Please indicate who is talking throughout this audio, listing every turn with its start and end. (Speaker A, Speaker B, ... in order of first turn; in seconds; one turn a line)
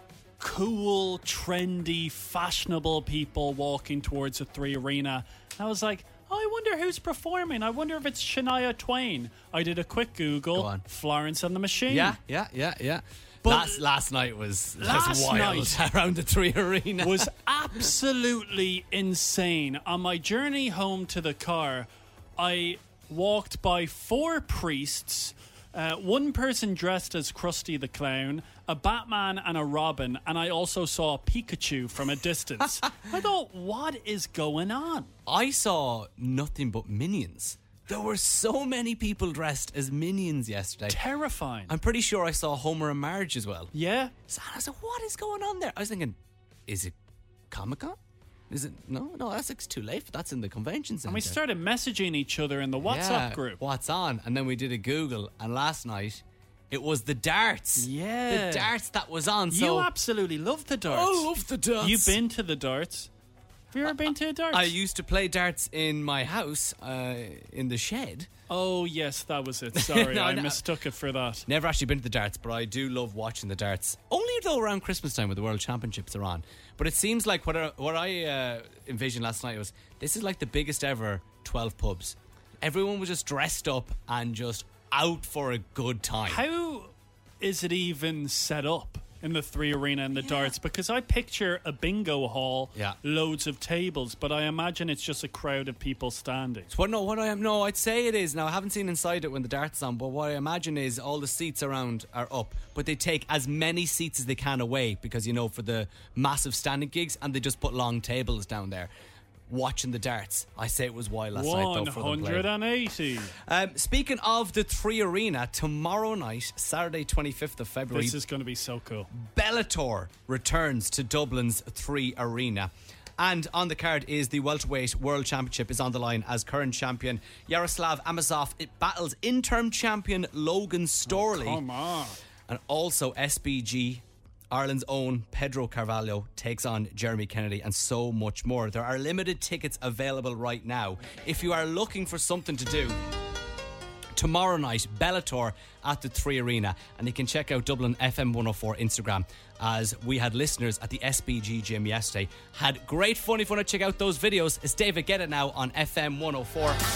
Speaker A: 0.4-12.2
Speaker B: 10.5-10.8
Speaker B: 11.9-17.3
Speaker A: 13.4-13.8
Speaker A: 14.8-15.8
Speaker A: 17.0-35.1
Speaker B: 35.3-41.0
Speaker A: 40.9-41.7
Speaker B: 41.7-43.7
Speaker A: 43.7-44.1
Speaker B: 44.3-46.9
Speaker B: 47.5-48.0
Speaker B: 48.5-51.4
Speaker A: 51.1-53.6
Speaker B: 52.8-59.9
Speaker A: 57.8-58.7
Speaker A: 59.5-61.3
Speaker B: 60.9-62.2
Speaker A: 61.8-63.1
Speaker A: 63.7-64.7
Speaker B: 64.5-68.3
Speaker A: 68.5-71.5
Speaker B: 69.7-70.6
Speaker B: 71.5-86.4
Speaker A: 86.2-96.7
Speaker B: 96.7-108.9
Speaker B: 109.5-112.5
Speaker A: 111.3-113.3
Speaker B: 113.4-118.2
Speaker A: 117.9-119.1
Speaker B: 119.1-131.6
Speaker A: 131.1-132.2
Speaker B: 132.5-143.0
Speaker B: 144.1-156.8